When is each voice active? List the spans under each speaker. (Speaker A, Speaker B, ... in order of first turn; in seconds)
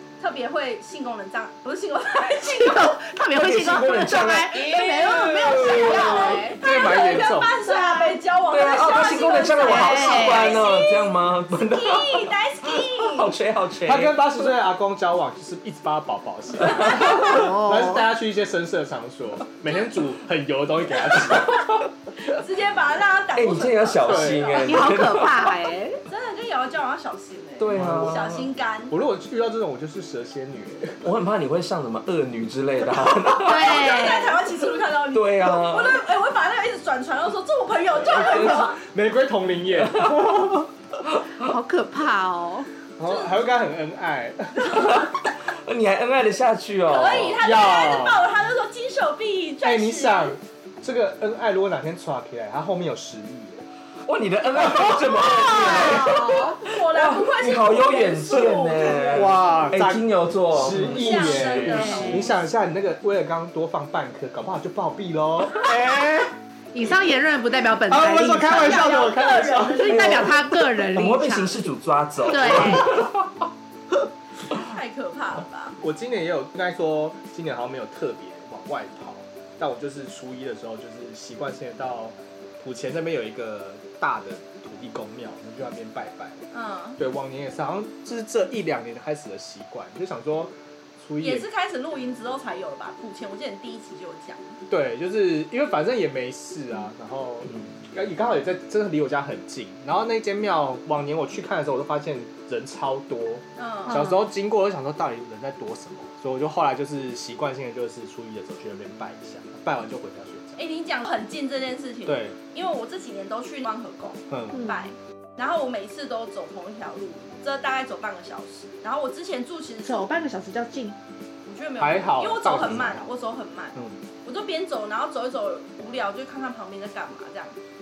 Speaker A: 0.2-3.0, 4.5-11.1, 11.7-13.3, 22.2-24.9, 26.1-28.9, 33.4-38.8, 43.0-43.4, 46.9-50.4, 56.6-59.6, 60.8-62.4, 68.4-70.3, 74.5-75.8, 86.5-87.0, 91.2-94.6, 103.6-104.1, 110.5-120.0, 121.4-127.6
Speaker B: 2.2-8.2, 9.6-10.7, 16.8-18.1, 24.6-26.0, 33.4-34.4, 41.4-42.7, 55.3-56.5, 61.7-62.3, 66.7-71.6, 72.2-73.0, 103.9-104.2, 114.5-114.8, 119.8-121.0
Speaker C: 3.3-6.3, 8.5-14.3, 16.6-16.9, 23.3-25.5, 27.6-28.5, 31.0-33.9, 35.1-36.0, 38.1-38.6, 39.8-40.5, 41.0-41.5, 44.7-47.4, 54.0-62.3, 70.9-73.2
Speaker D: 6.6-7.5, 13.8-21.8, 24.1-24.6, 27.7-28.2, 28.9-31.0, 38.0-40.7, 43.0-45.0, 47.1-48.2, 49.6-53.6, 54.6-55.7, 59.0-66.3, 67.9-70.6, 75.8-86.4, 87.0-91.5, 94.7-110.5, 112.0-112.3, 114.3-114.6, 121.8-123.1